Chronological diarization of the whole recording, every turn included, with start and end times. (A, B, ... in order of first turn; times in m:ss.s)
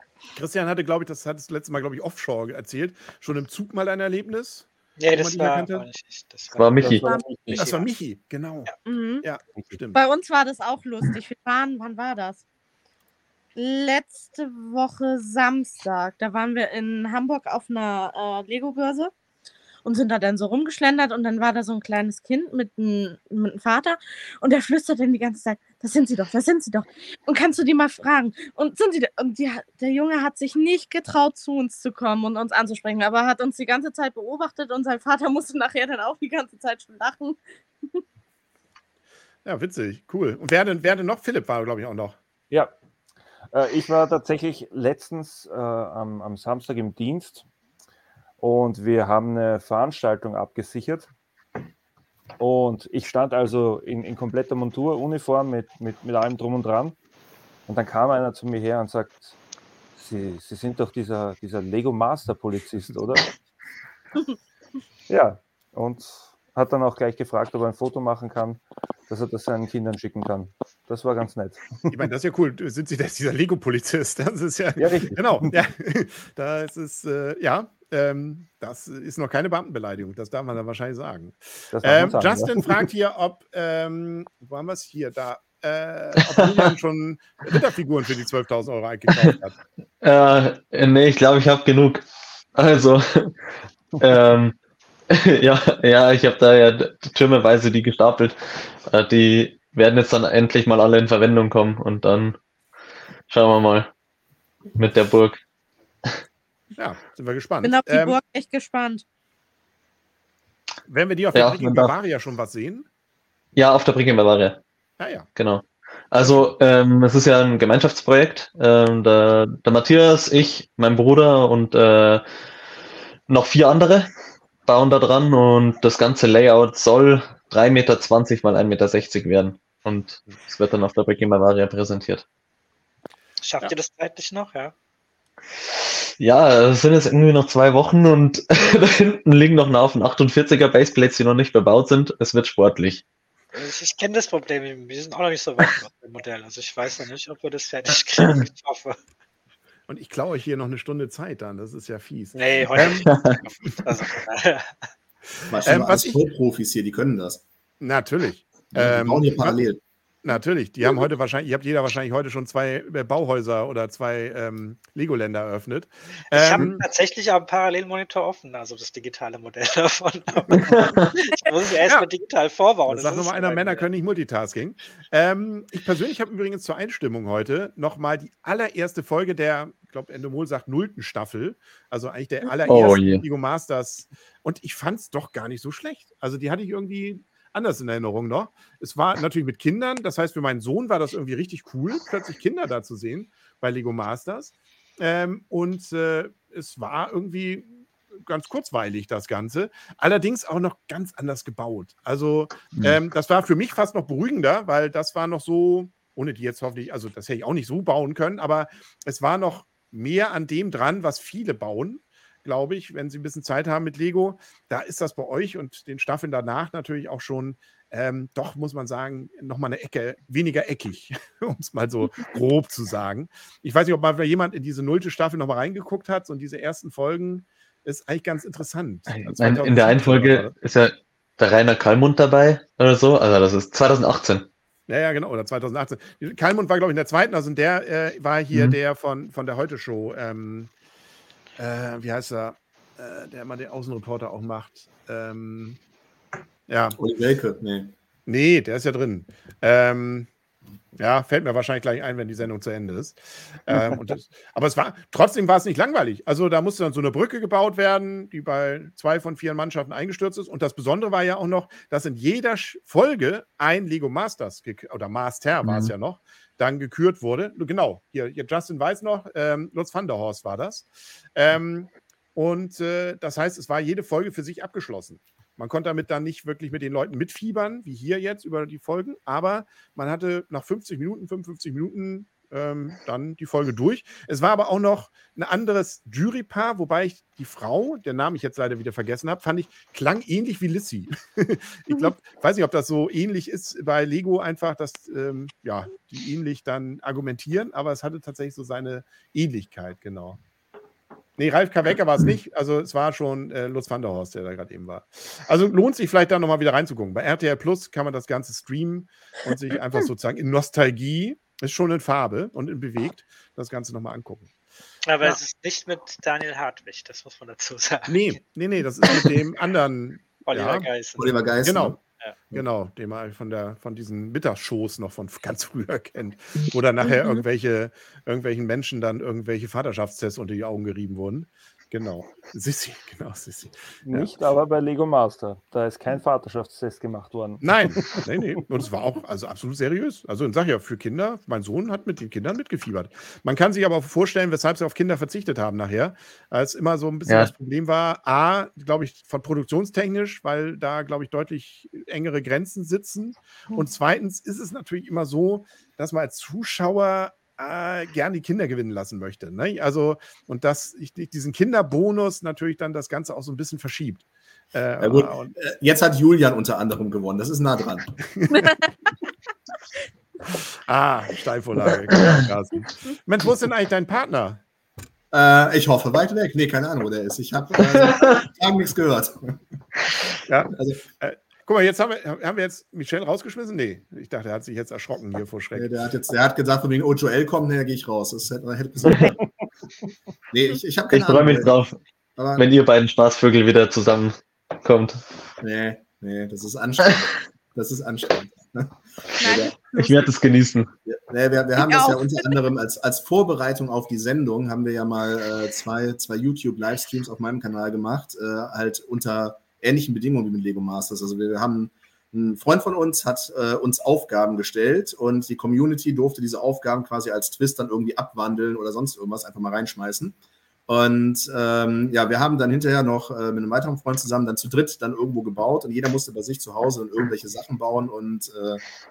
0:00.4-0:05.8 A
0:05.0-0:07.9 B
0:06.5-0:07.1 C
0:06.8-0:07.6 D
0:07.0-0:07.6 E
0:07.5-0:08.7 A
0:08.8-0:09.2 E
0:09.2-0:10.0 A
0:09.9-0:12.4 E
0:13.6-0:19.1 E
0:19.8-0:38.0 E
0:39.4-0:42.2 A
0:43.5-0:47.4 D
0:48.4-0:51.1 D
0:52.4-0:57.0 D
0:57.7-0:59.4 D
1:00.0-1:03.2 D
1:05.1-1:12.0 D
1:11.9-1:29.6 A
1:14.8-1:15.6 D
1:21.7-1:22.7 D
1:30.0-1:32.0 C
1:32.6-1:33.3 C
1:34.0-1:34.5 C
1:35.1-1:42.4 C
1:43.3-1:43.9 C
1:44.7-1:45.4 C
1:46.8-1:48.2 A
1:47.6-1:49.0 E
1:50.9-1:52.8 A
1:51.3-1:51.9 C
1:53.5-1:54.6 C
1:55.0-1:55.3 A
1:55.4-2:02.2 C
1:56.2-1:56.5 A
2:03.3-2:04.1 C
2:04.6-2:12.2 C
2:13.4-2:14.7 B
2:16.2-2:23.0 C
2:23.5-2:29.0 B
2:29.9-2:33.0 A
2:32.3-2:34.8 B
2:33.0-2:33.4 C
2:35.5-2:37.4 F
2:35.6-2:36.2 A
2:37.8-2:39.7 A
2:38.7-2:39.8 F
2:40.2-2:46.8 A
2:46.3-2:53.8 B
2:50.6-2:51.1 C
2:52.9-3:50.5 A
3:02.6-3:03.2 C
3:49.1-3:54.5 C
3:54.9-4:00.7 A
4:01.6-4:05.8 A
4:06.7-4:07.0 A
4:07.0-4:07.9 F
4:08.3-4:10.3 A
4:11.0-5:00.4 A
4:25.6-4:25.9 C
5:01.4-5:14.5 A
5:15.0-5:18.2 B
5:18.1-5:20.9 A
5:20.5-5:21.3 B
5:21.2-5:22.0 F
5:21.6-5:22.0 A
5:22.5-5:34.3 A
5:34.0-5:38.2 D
5:37.6-6:05.5 A
5:47.3-5:47.5 C
6:05.0-6:08.1 F
6:08.3-6:08.7 A
6:10.9-6:14.6 A
6:15.3-6:19.6 F
6:20.5-6:25.9 A
6:20.7-6:21.0 F
6:25.7-6:29.3 F
6:30.5-6:31.7 F
6:31.1-6:32.0 C
6:32.4-6:32.6 F
6:32.6-6:35.2 C
6:35.6-6:39.7 F
6:39.4-6:40.3 E
6:39.9-6:40.9 C
6:41.1-7:00.4 F
6:41.8-6:42.5 E
7:00.9-7:08.8 F